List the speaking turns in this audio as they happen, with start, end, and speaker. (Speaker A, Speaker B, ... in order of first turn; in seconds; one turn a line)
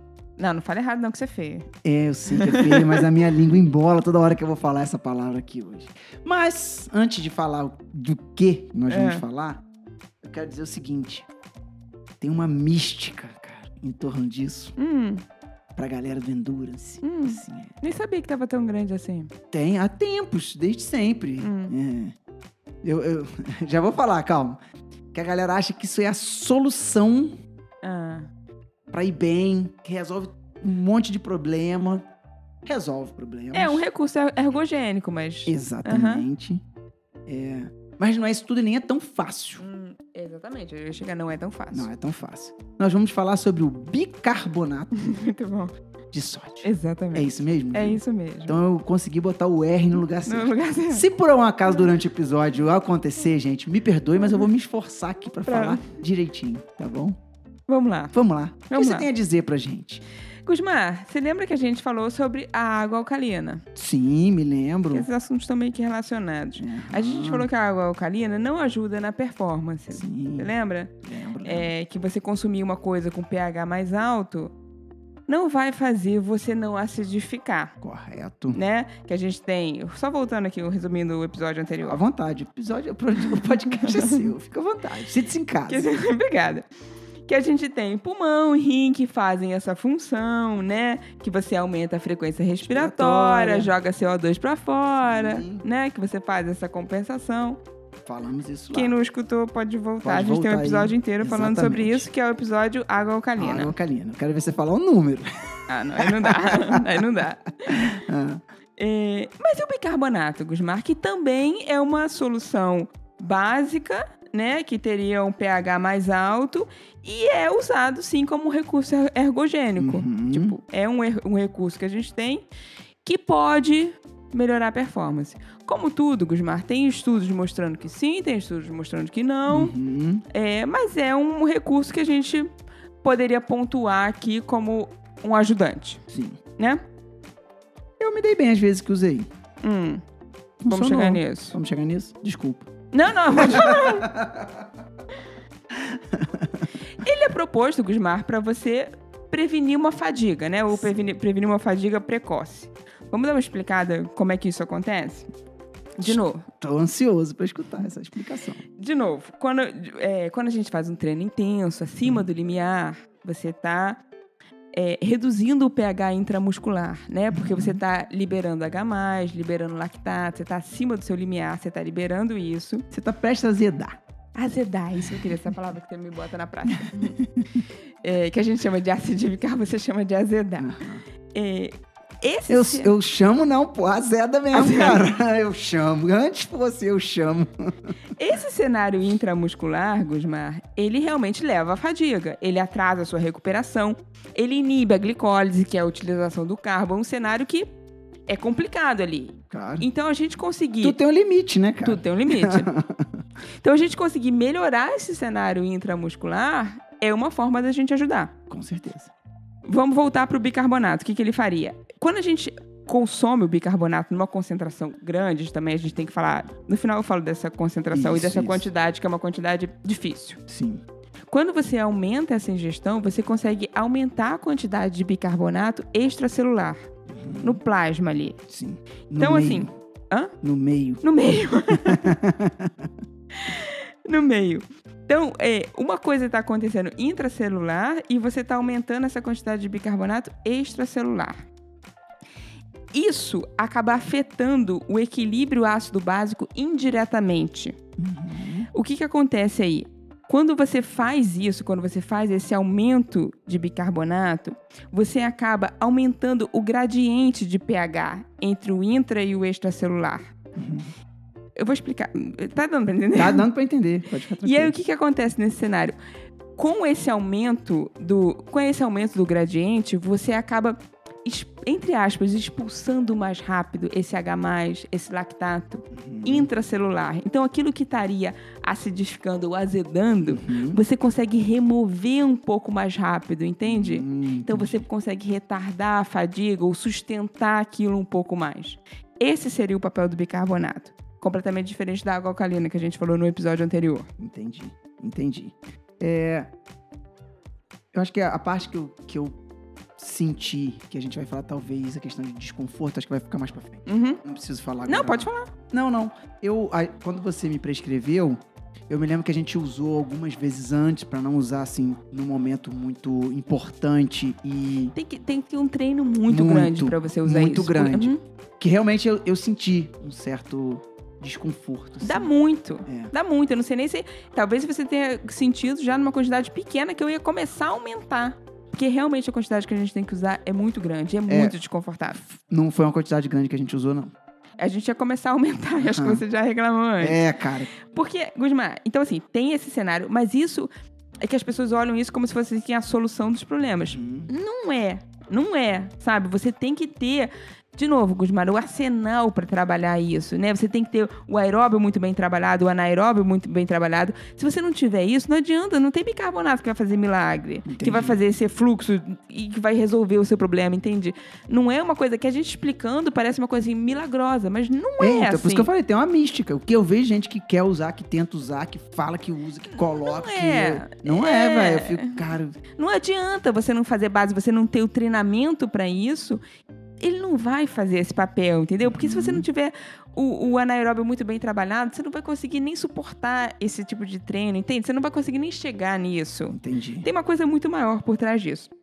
Speaker A: 0.4-1.7
Speaker B: 1.9-9.6
Speaker A: 2.4-3.0
Speaker A: 8.9-9.2
Speaker B: 10.2-11.3
Speaker B: 12.2-14.8
Speaker A: 14.8-15.2
Speaker B: 15.8-17.8
Speaker A: 17.0-19.3
Speaker B: 19.5-22.1
Speaker A: 21.4-21.7
Speaker B: 22.8-24.6
Speaker B: 25.1-27.4
Speaker A: 27.8-28.3
Speaker B: 28.9-32.0
Speaker B: 32.6-33.8
Speaker A: 33.5-36.2
Speaker B: 35.5-36.6
Speaker B: 37.3-39.6
Speaker A: 39.6-41.9
Speaker B: 41.7-44.9
Speaker A: 44.9-45.7
Speaker B: 46.1-57.2
Speaker A: 46.6-48.6
Speaker A: 50.2-51.0
Speaker A: 55.5-55.9
Speaker A: 57.7-58.1
Speaker B: 58.1-60.0
Speaker A: 58.7-59.1
Speaker A: 60.5-63.6
Speaker B: 63.8-65.1
Speaker A: 64.9-74.5
Speaker B: 66.6-67.5
Speaker B: 69.9-70.5
Speaker B: 71.0-71.7
Speaker A: 75.3-77.7
Speaker B: 77.8-78.6
Speaker A: 78.5-82.0
Speaker B: 81.8-85.9
Speaker A: 83.4-84.3
Speaker A: 85.7-86.7
Speaker A: 87.3-97.6
Speaker B: 92.6-93.7
Speaker B: 95.0-95.7
Speaker B: 98.1-99.0
Speaker A: 98.7-103.7
Speaker B: 100.0-102.1
Speaker B: 103.4-105.3
Speaker A: 105.7-107.8
Speaker B: 106.0-107.0
Speaker B: 107.7-108.4
Speaker A: 108.8-122.5
Speaker B: 119.8-120.6
Speaker A: 123.0-129.7
Speaker B: 129.5-130.2
Speaker A: 130.3-132.5
Speaker A: 133.0-136.0
Speaker B: 136.1-136.4
Speaker B: 138.0-139.3
Speaker A: 139.6-140.0
Speaker B: 140.6-142.7
Speaker A: 140.7-141.6
Speaker A: 142.9-144.1
Speaker B: 143.3-144.5
Speaker B: 145.7-146.7
Speaker A: 147.0-155.3
Speaker A: 156.0-156.5
Speaker B: 156.0-158.6
Speaker A: 158.8-164.0
Speaker A: 164.7-172.8
Speaker B: 167.3-167.8
Speaker B: 172.9-174.0
Speaker A: 174.4-177.2
Speaker B: 175.0-175.4
Speaker B: 176.9-177.6
Speaker A: 178.0-180.8
Speaker B: 180.6-181.0
Speaker A: 181.3-182.9
Speaker B: 182.5-187.5
Speaker A: 184.5-185.0
Speaker A: 188.2-197.7
Speaker A: 198.3-201.0
Speaker B: 199.5-199.9
Speaker B: 200.8-203.2
Speaker A: 201.8-202.7
Speaker A: 203.6-208.3
Speaker B: 208.5-209.1
Speaker A: 209.7-220.4
Speaker B: 217.9-218.7
Speaker B: 220.5-220.8
Speaker A: 221.3-226.8
Speaker B: 227.1-227.6
Speaker A: 227.4-228.4
Speaker B: 228.5-229.7
Speaker A: 229.2-230.3
Speaker B: 230.4-231.0
Speaker A: 231.0-232.1
Speaker B: 231.9-232.9
Speaker A: 233.3-241.5
Speaker A: 242.9-247.8
Speaker B: 248.0-248.7
Speaker A: 248.7-260.3
Speaker B: 260.6-260.9
Speaker A: 261.6-263.4
Speaker B: 263.1-264.8
Speaker A: 264.4-266.0
Speaker A: 266.6-294.1
Speaker B: 275.9-276.5
Speaker B: 280.2-280.8
Speaker B: 283.6-284.8
Speaker B: 294.2-296.5
Speaker B: 297.9-299.4
Speaker B: 300.0-314.9
Speaker A: 303.9-304.2
Speaker A: 304.9-305.5
Speaker A: 314.9-318.2
Speaker B: 316.3-322.3
Speaker A: 322.0-332.2
Speaker B: 322.9-323.1
Speaker B: 331.3-331.6
Speaker B: 332.2-334.1
Speaker A: 334.6-337.2
Speaker B: 335.8-336.2
Speaker B: 337.0-337.7
Speaker A: 337.8-340.7
Speaker A: 341.2-365.7
Speaker B: 343.9-344.3
Speaker B: 357.7-358.2
Speaker B: 365.0-372.6
Speaker A: 369.7-372.2
Speaker A: 372.8-376.4
Speaker A: 377.0-388.7
Speaker B: 378.8-379.5
Speaker B: 386.5-387.1